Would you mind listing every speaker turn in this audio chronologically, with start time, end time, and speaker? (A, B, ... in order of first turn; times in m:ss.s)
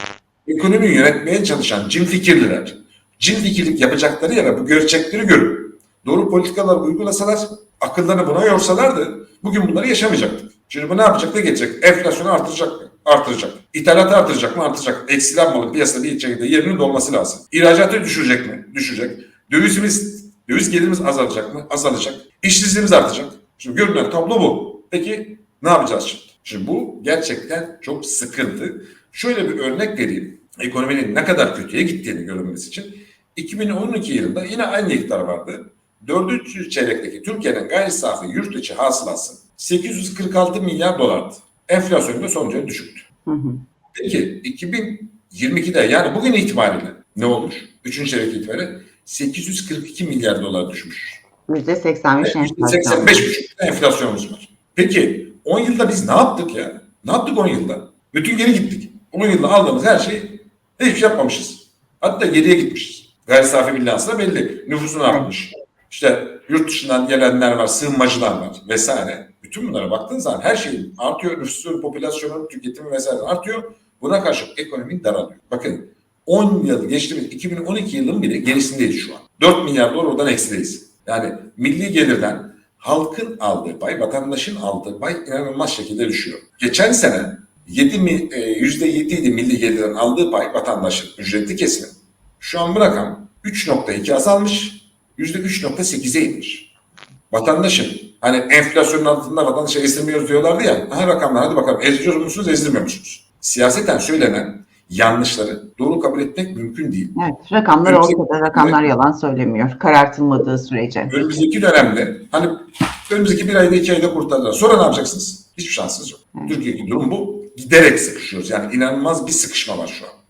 0:00.5-0:43.0 A
0:43.2-0:43.6 B
0:43.9-0:51.2 A
0:51.5-0:53.3 B
0:52.2-1:36.7 A
1:37.3-1:47.1 A
1:47.2-1:51.1 B
1:47.8-1:48.8 A
1:51.1-2:00.1 A